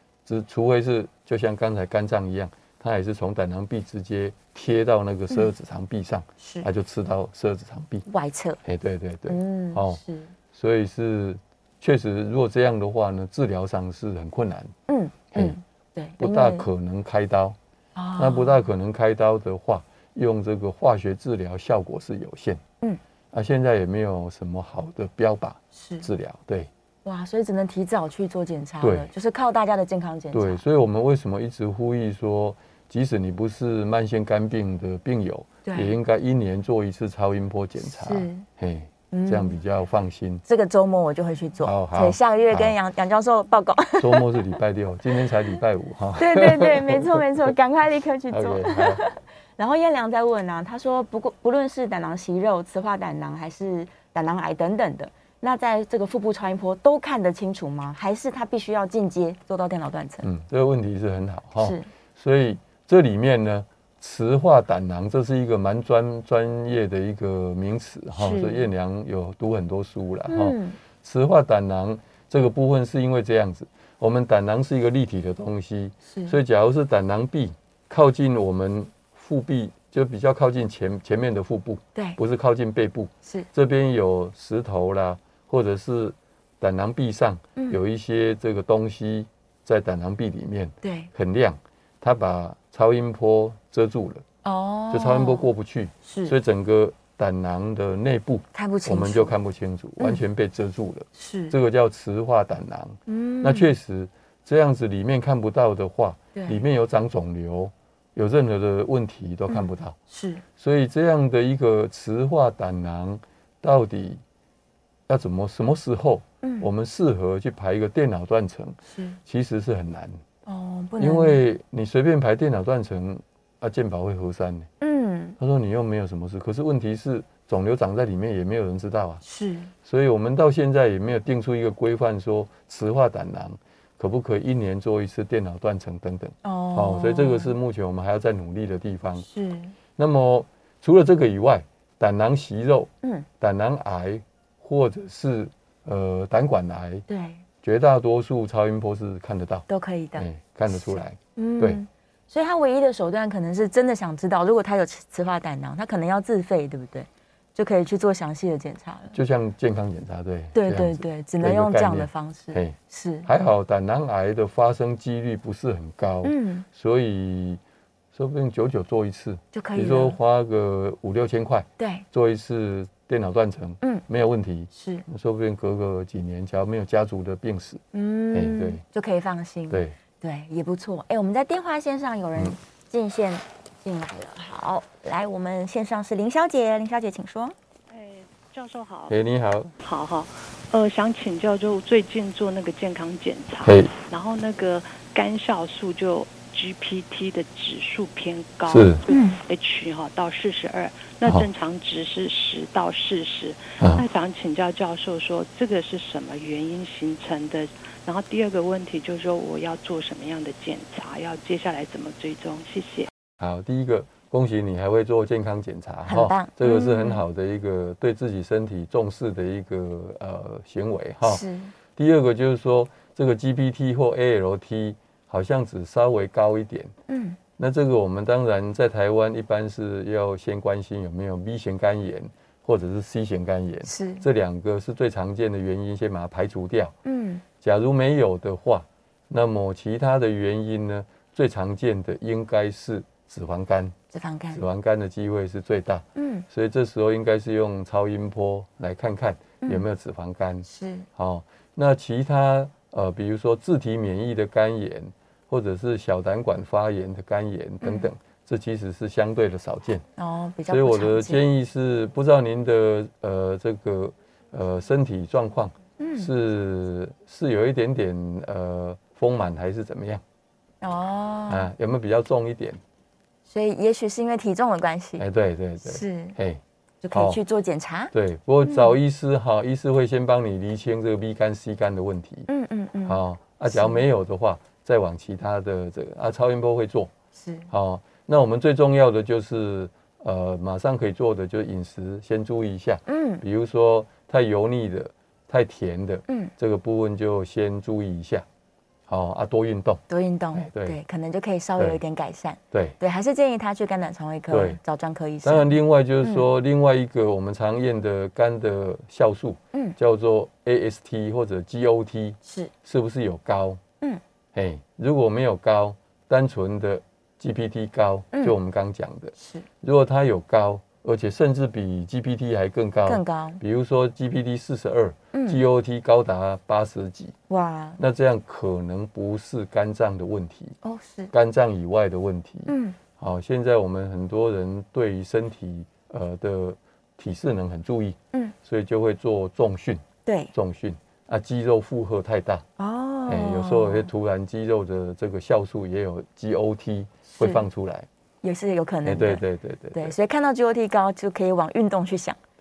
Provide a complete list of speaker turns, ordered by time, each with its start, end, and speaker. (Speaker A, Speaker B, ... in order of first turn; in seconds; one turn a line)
Speaker A: 0.3-8.1
Speaker B: 6.4-6.7
Speaker B: 8.1-8.6
Speaker A: 8.6-10.0
Speaker B: 9.3-10.3
Speaker A: 10.5-14.7
Speaker B: 14.9-16.7
Speaker A: 16.2-17.6
Speaker B: 18.0-18.7
Speaker A: 18.2-22.6
Speaker A: 23.3-26.7
Speaker B: 25.8-26.1
Speaker B: 27.1-30.6
Speaker A: 28.8-29.1
Speaker A: 30.3-40.4
Speaker B: 35.6-36.0
Speaker B: 37.8-38.5
Speaker B: 39.1-39.6
Speaker B: 40.5-44.6
Speaker A: 41.6-42.8
Speaker A: 44.0-47.2
Speaker B: 46.2-60.3
Speaker A: 48.3-49.0
Speaker A: 60.2-94.2
Speaker B: 61.6-61.9
Speaker B: 68.2-68.7
Speaker B: 70.3-70.8
Speaker B: 76.1-76.4
Speaker B: 90.8-91.1
Speaker B: 94.4-95.5
Speaker A: 94.9-110.0
Speaker B: 96.0-96.3
Speaker B: 98.5-99.3
Speaker B: 101.2-101.5
Speaker B: 103.1-103.7
Speaker B: 106.3-106.6
Speaker B: 109.5-110.4
Speaker A: 110.6-114.2
Speaker A: 115.1-120.2
Speaker B: 118.9-119.2
Speaker B: 120.5-121.4
Speaker A: 121.0-124.7
Speaker B: 124.8-125.4
Speaker A: 125.4-129.2
Speaker B: 129.2-129.7
Speaker A: 129.8-139.3
Speaker B: 136.4-137.5
Speaker B: 139.2-139.7
Speaker A: 140.0-147.1
Speaker B: 147.1-147.4
Speaker A: 147.6-149.7
Speaker B: 149.7-159.1
Speaker A: 150.2-151.8
Speaker A: 159.1-167.6
Speaker B: 160.5-163.3
Speaker B: 166.2-166.7
Speaker A: 168.1-178.8
Speaker B: 169.5-170.2
Speaker B: 171.8-172.1
Speaker B: 174.7-175.1
Speaker B: 177.9-187.6
Speaker A: 179.7-180.0
Speaker C: 187.9-189.2
Speaker A: 189.1-189.7
Speaker C: 189.8-213.1
Speaker A: 193.6-193.9
Speaker A: 198.7-199.0
Speaker B: 199.1-199.4
Speaker A: 213.4-221.4
Speaker B: 216.1-217.2
Speaker B: 221.2-221.7
Speaker A: 222.0-226.9
Speaker B: 227.1-227.4
Speaker A: 227.6-236.9
Speaker B: 233.9-234.2
Speaker B: 237.1-237.4
Speaker A: 237.6-243.9
Speaker B: 244.1-244.6
Speaker A: 244.5-260.1
Speaker B: 246.2-246.4
Speaker B: 250.7-251.1
Speaker B: 257.8-258.1
Speaker B: 260.2-261.4
Speaker A: 260.7-270.2
Speaker B: 266.0-266.3
Speaker B: 270.8-271.7
Speaker A: 271.5-272.8
Speaker B: 273.5-275.3
Speaker A: 275.2-276.6
Speaker B: 275.8-276.4
Speaker B: 277.0-278.1
Speaker A: 277.1-277.4
Speaker A: 278.1-282.5
Speaker B: 278.6-278.9
Speaker B: 282.5-284.0
Speaker A: 283.1-287.1
Speaker B: 287.4-287.7
Speaker A: 287.7-298.4
Speaker B: 293.1-293.4
Speaker A: 299.1-300.0
Speaker B: 300.1-305.7
Speaker A: 300.6-301.0
Speaker A: 304.5-304.8
Speaker A: 305.4-313.8
Speaker B: 312.4-312.7
Speaker A: 314.6-327.3
Speaker B: 319.4-319.7
Speaker B: 323.1-323.6
Speaker B: 325.3-325.6
Speaker B: 327.5-328.0
Speaker A: 328.0-330.8
Speaker B: 330.8-331.3
Speaker A: 331.3-342.6
Speaker B: 332.7-333.0
Speaker B: 340.2-340.5
Speaker B: 342.8-344.1
Speaker A: 343.3-348.1
Speaker B: 347.3-347.7
Speaker B: 348.4-349.4
Speaker A: 349.1-350.2
Speaker B: 349.9-352.4